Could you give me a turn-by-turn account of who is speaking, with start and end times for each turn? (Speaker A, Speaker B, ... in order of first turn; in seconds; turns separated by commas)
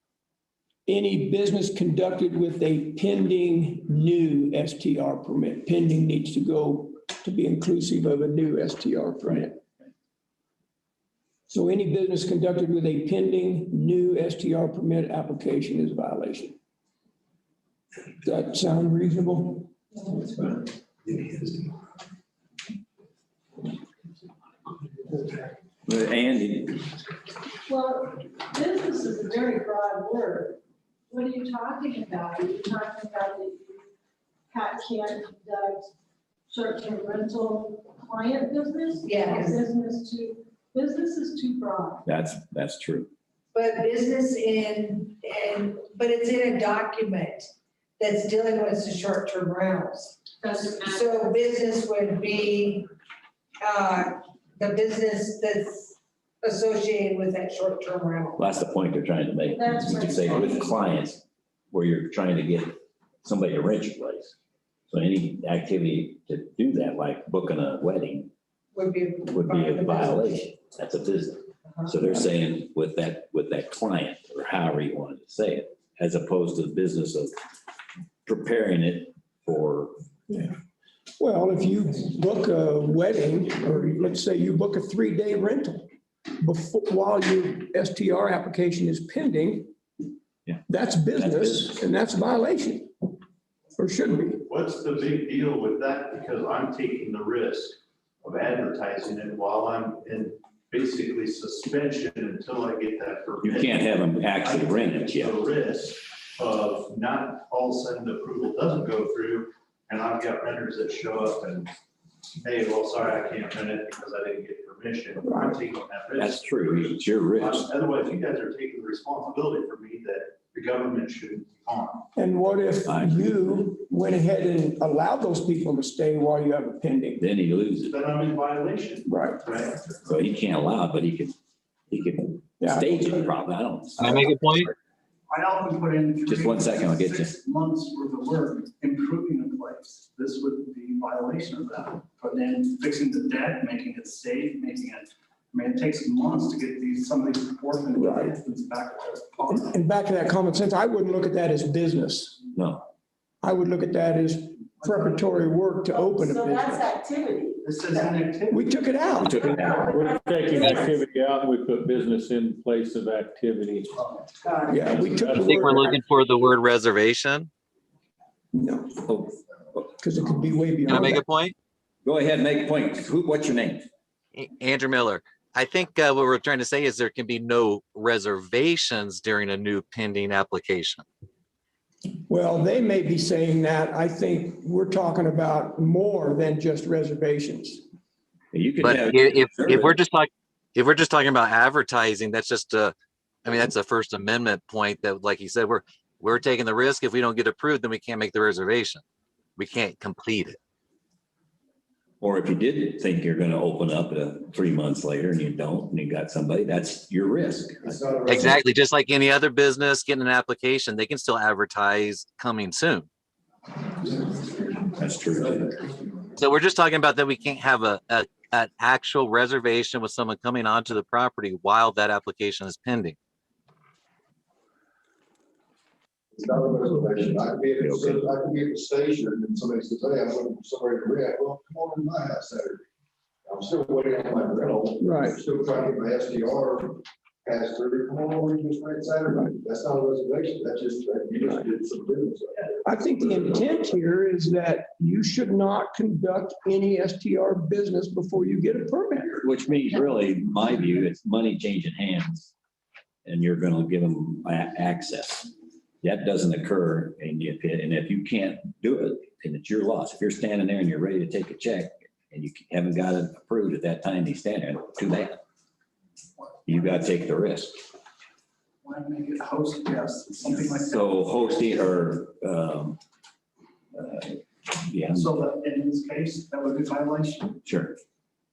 Speaker A: 0.9-9.6, Speaker A: 11.5-16.6, Speaker A: 18.2-19.7, Speaker B: 25.9-26.9, Speaker C: 27.7-33.9, Speaker C: 34.5-35.9, Speaker C: 36.5-42.0, Speaker D: 39.0-39.6, Speaker B: 42.0-43.1, Speaker D: 43.5-52.9, Speaker C: 50.4-51.3, Speaker D: 53.6-58.4, Speaker B: 58.4-64.3, Speaker C: 59.5-60.7, Speaker B: 64.9-68.3, Speaker D: 68.7-70.3, Speaker B: 69.3-77.3, Speaker B: 78.2-79.9, Speaker A: 81.2-89.7, Speaker A: 90.7-92.9, Speaker B: 91.2-91.7, Speaker A: 93.8-94.4, Speaker E: 94.4-111.7, Speaker B: 103.4-105.3, Speaker E: 112.4-122.0, Speaker B: 116.2-117.7, Speaker A: 122.2-127.2, Speaker B: 122.8-123.6, Speaker B: 127.2-127.9, Speaker E: 127.9-129.9, Speaker A: 129.1-129.4, Speaker B: 130.1-131.4, Speaker B: 131.9-134.3, Speaker A: 132.6-133.2, Speaker F: 134.0-134.7, Speaker G: 135.3-149.8, Speaker B: 136.3-137.3, Speaker A: 148.0-148.4, Speaker A: 149.5-152.4, Speaker B: 152.6-152.8, Speaker A: 153.4-156.8, Speaker C: 155.9-157.7, Speaker G: 157.6-158.7, Speaker A: 158.5-159.4, Speaker B: 159.2-160.0, Speaker H: 159.4-164.0, Speaker C: 159.7-160.9, Speaker F: 160.6-160.9, Speaker A: 164.7-165.9, Speaker H: 164.8-165.7, Speaker F: 165.4-167.5, Speaker A: 168.5-169.1, Speaker A: 169.9-171.2, Speaker F: 170.9-171.5, Speaker B: 172.1-173.9, Speaker F: 174.3-181.1, Speaker A: 182.3-187.8, Speaker B: 188.5-190.0, Speaker F: 188.8-199.0, Speaker F: 199.6-200.6, Speaker B: 202.2-208.6, Speaker I: 207.8-208.6, Speaker F: 208.3-213.1, Speaker B: 214.9-215.8, Speaker F: 216.4-223.2, Speaker I: 226.3-232.8, Speaker B: 227.8-228.2, Speaker I: 233.5-242.7, Speaker A: 235.0-235.4, Speaker A: 242.8-249.4, Speaker B: 249.4-252.5, Speaker B: 253.2-265.4, Speaker B: 266.7-267.8, Speaker G: 266.7-267.0, Speaker G: 268.8-271.9, Speaker B: 270.7-273.0, Speaker B: 273.9-275.4, Speaker G: 275.1-277.6, Speaker B: 277.6-278.0